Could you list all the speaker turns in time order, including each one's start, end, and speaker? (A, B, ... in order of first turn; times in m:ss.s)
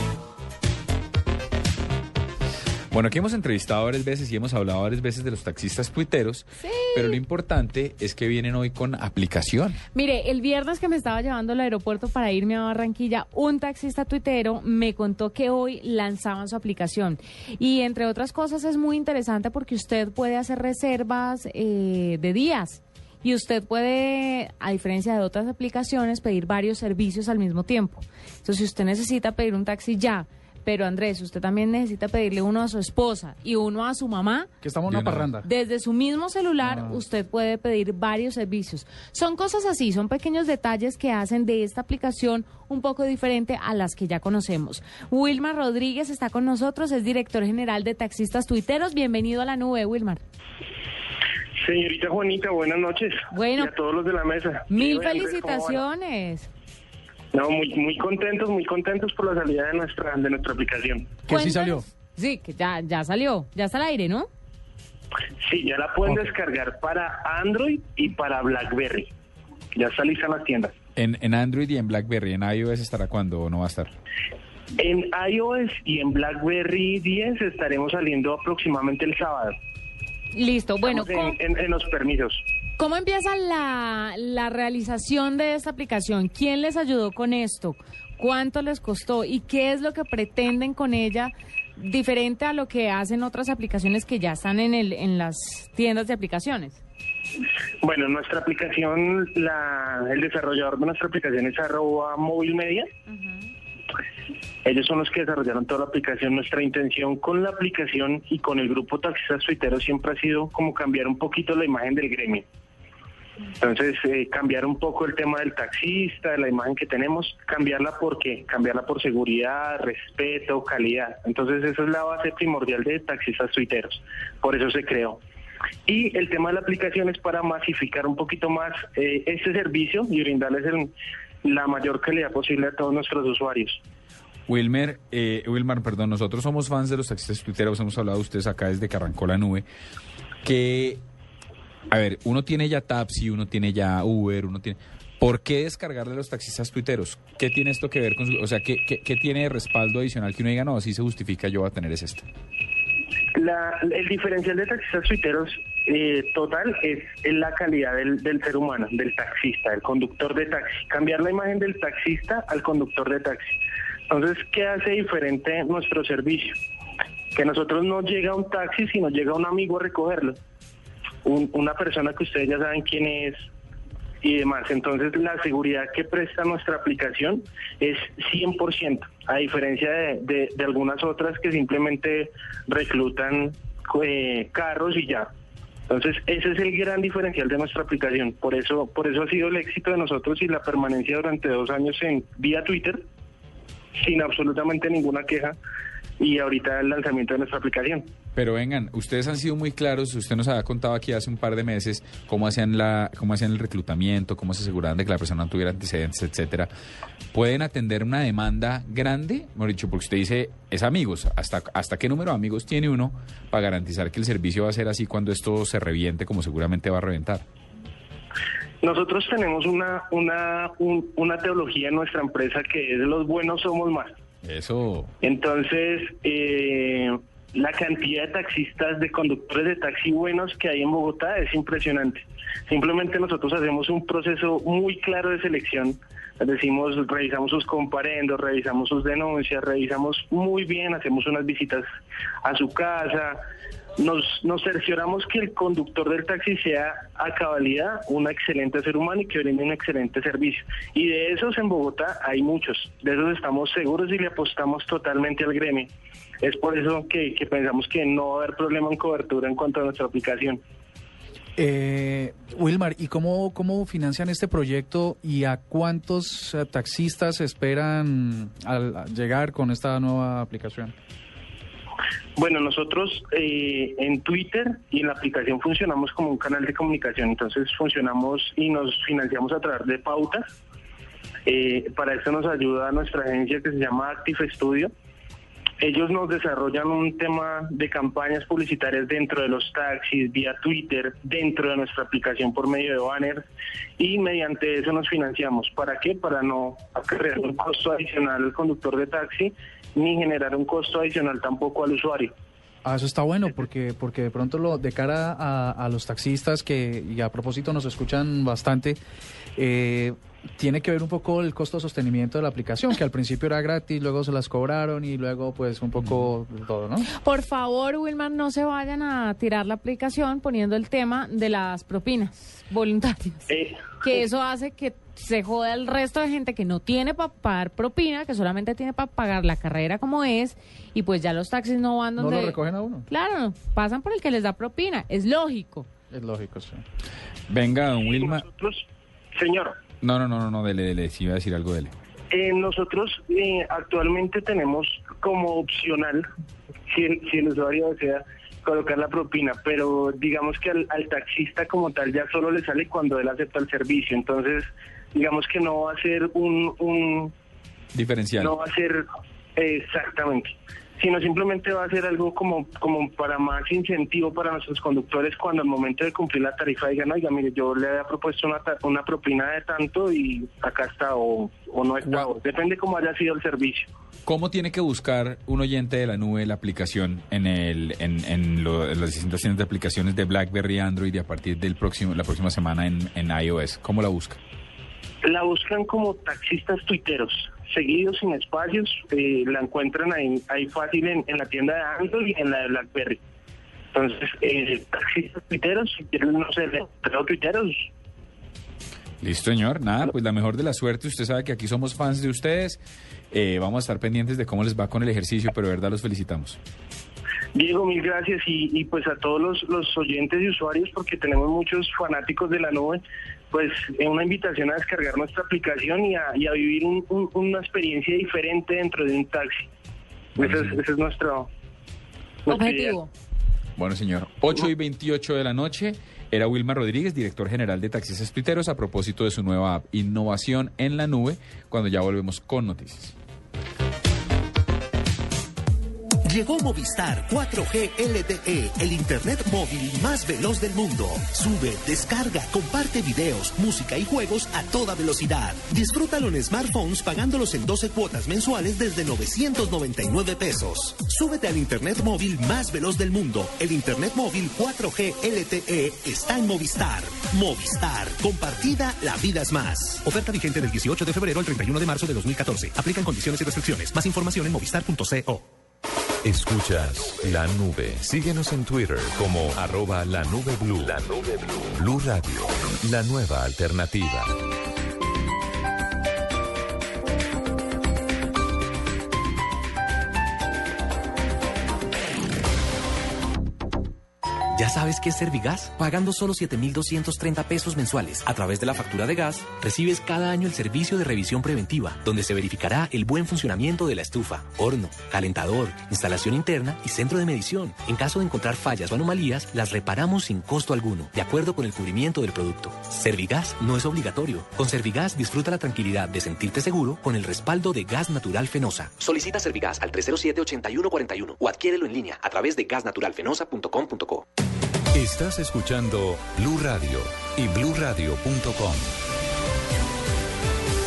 0:02.9-0:09.8 A
0:06.6-0:07.2 B
0:09.9-0:34.5 B
0:34.6-0:35.4 C
0:34.9-0:35.3 A
0:35.4-0:50.2 B
0:36.6-0:37.0 C
0:51.6-0:55.8 D
0:53.3-0:53.7 B
0:54.7-0:56.5 B
0:57.3-1:01.2 D
1:01.3-1:01.8 C
1:01.3-1:04.3 B
1:05.4-1:09.1 D
1:06.0-1:06.3 C
1:09.7-1:10.7 D
1:11.0-1:13.9 A
1:14.8-1:19.6 D
1:20.3-1:21.4 B
1:20.8-1:22.4 D
1:22.8-1:36.8 B
1:37.8-1:42.9 D
1:44.6-1:52.4 D
1:53.6-2:05.2 D
2:05.8-2:10.9 D
2:11.4-2:13.8 D
2:14.5-2:19.6 A
2:20.4-2:21.0 A
2:21.9-2:32.2 A
2:33.3-2:43.6 D
2:44.1-2:46.6 D
2:47.3-2:50.4 D
2:51.2-2:53.4 D
2:54.2-3:05.3 D
3:05.9-3:13.0 D
3:14.0-3:15.6 D
3:16.2-3:18.1 D
3:18.3-3:26.7 A
3:27.3-3:37.4 A
3:38.8-3:44.1 D
3:44.4-3:45.1 A
3:45.2-4:01.8 D
4:02.4-4:03.4 D
4:04.0-4:15.9 D
4:16.4-4:20.6 D
4:21.6-4:30.9 C
4:32.4-4:40.4 D
4:41.4-4:44.9 D
4:45.8-4:53.4 D
4:54.0-5:02.3 D
5:02.8-5:09.0 C
5:09.6-5:17.1 C
5:17.1-5:35.9 B
5:23.5-5:23.8 D
5:32.2-5:33.1 C
5:36.1-5:36.8 C
5:37.5-5:38.4 A
5:38.2-5:39.8 D
5:40.0-5:41.9 A
5:42.3-5:46.3 D
5:46.9-5:57.3 D
5:57.9-5:58.6 A
5:58.4-5:59.0 D
5:59.6-6:13.9 D
6:14.2-6:24.4 A
6:25.2-6:33.2 D
6:33.9-6:37.9 D
6:39.2-6:42.8 A
6:43.3-6:46.6 A
6:47.5-6:59.7 D
7:00.4-7:01.5 D
7:00.4-7:00.8 A
7:02.4-7:03.0 D
7:02.5-7:03.1 B
7:03.8-7:13.2 A
7:16.2-7:40.1 E
7:40.0-7:45.4 F
7:46.2-7:54.4 G
8:04.5-8:34.2 F
8:34.9-8:38.9 G